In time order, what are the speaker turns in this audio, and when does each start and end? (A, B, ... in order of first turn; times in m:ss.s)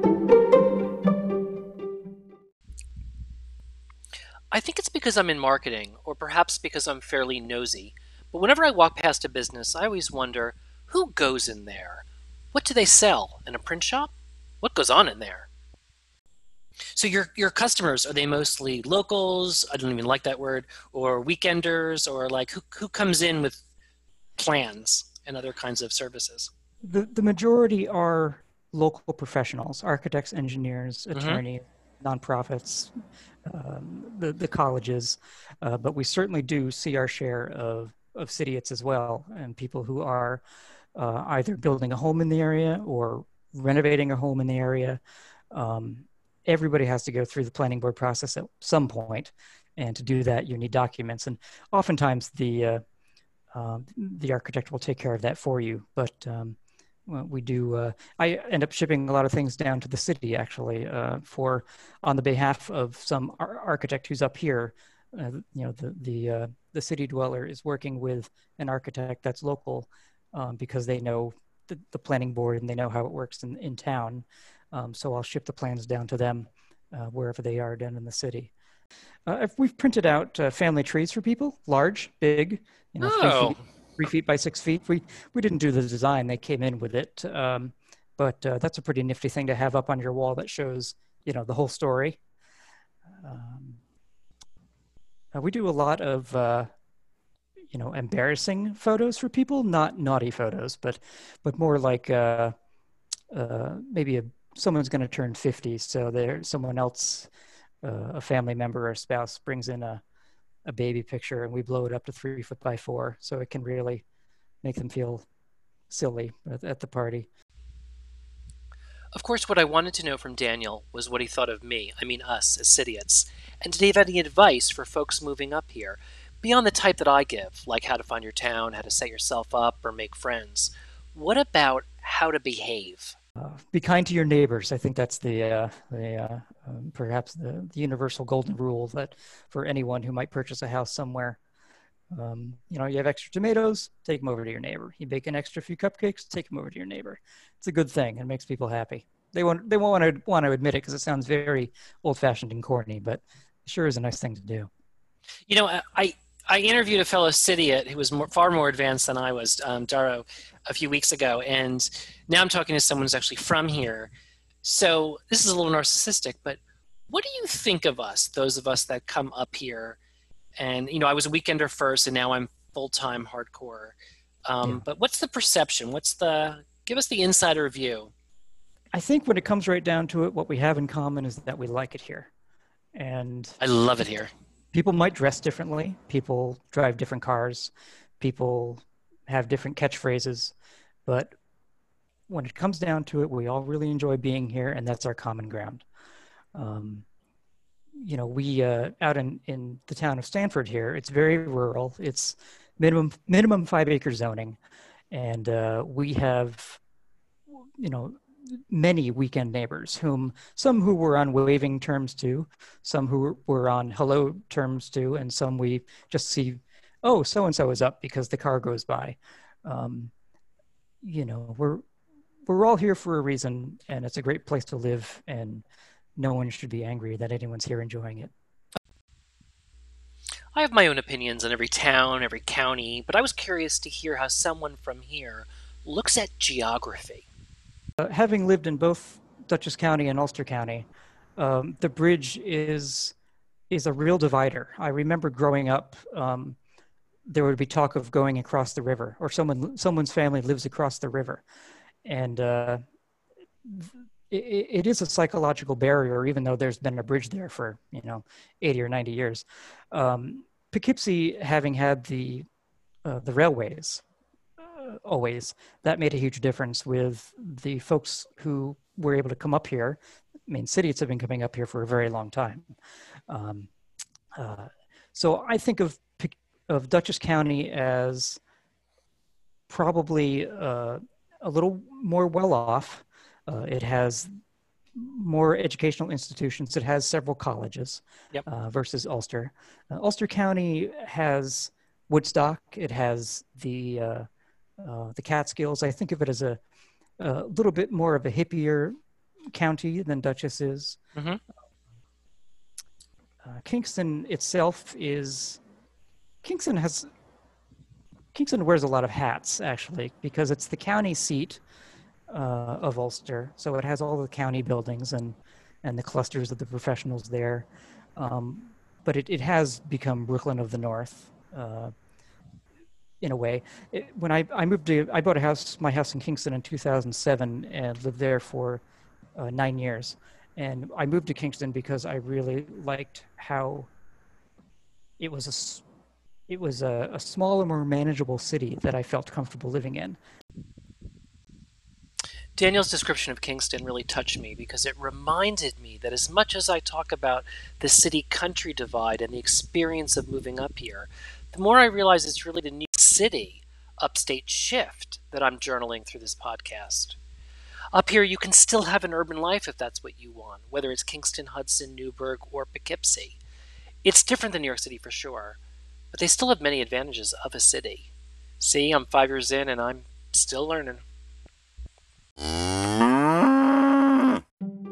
0:04.5-0:15.5 A
0:17.0-0:23.6 A
0:24.4-0:26.5 A
0:26.8-0:32.9 B
0:31.1-0:31.4 A
0:33.5-0:40.4 B
0:41.0-0:45.0 B
0:45.5-0:52.8 B
0:53.5-1:18.5 B
1:19.3-1:32.2 B
1:23.0-1:23.6 A
1:33.2-1:33.8 B
1:35.4-1:36.7 B
1:37.7-1:42.5 B
1:43.3-1:47.3 B
1:47.8-1:50.0 B
1:50.7-1:54.0 B
1:54.6-1:55.3 B
1:55.9-1:57.3 B
1:59.2-2:13.2 A
2:13.4-2:21.4 B
2:22.1-2:34.7 B
2:35.5-2:44.1 A
2:44.6-2:50.0 A
2:50.6-2:58.1 A
2:58.9-3:02.3 B
3:03.0-3:03.6 B
3:03.6-3:04.3 A
3:04.7-3:10.5 B
3:12.3-3:15.8 B
3:16.6-3:17.1 B
3:18.0-3:24.6 B
3:25.1-3:26.8 B
3:27.8-3:40.1 B
3:41.0-3:41.8 B
3:42.5-3:45.6 B
3:46.2-3:48.3 B
3:50.5-3:57.3 A
3:58.0-4:00.9 B
4:01.4-4:03.2 B
4:03.7-4:06.6 B
4:07.3-4:11.4 B
4:12.1-4:12.8 B
4:13.6-4:22.5 B
4:23.0-4:24.0 B
4:24.6-4:32.7 B
4:33.3-4:33.7 B
4:34.4-4:38.4 B
4:39.7-4:44.3 B
4:45.0-4:54.3 B
4:54.8-4:56.6 B
4:57.2-4:58.9 B
4:59.5-5:01.0 B
5:01.2-5:01.4 A
5:03.4-5:05.6 B
5:06.4-5:07.1 B
5:08.3-5:11.6 B
5:12.3-5:21.9 B
5:23.2-5:28.8 B
5:29.4-5:33.9 B
5:35.2-5:35.8 B
5:36.5-5:40.2 B
5:42.6-5:57.2 A
5:57.9-6:03.4 A
6:04.0-6:05.6 A
6:06.1-6:11.0 A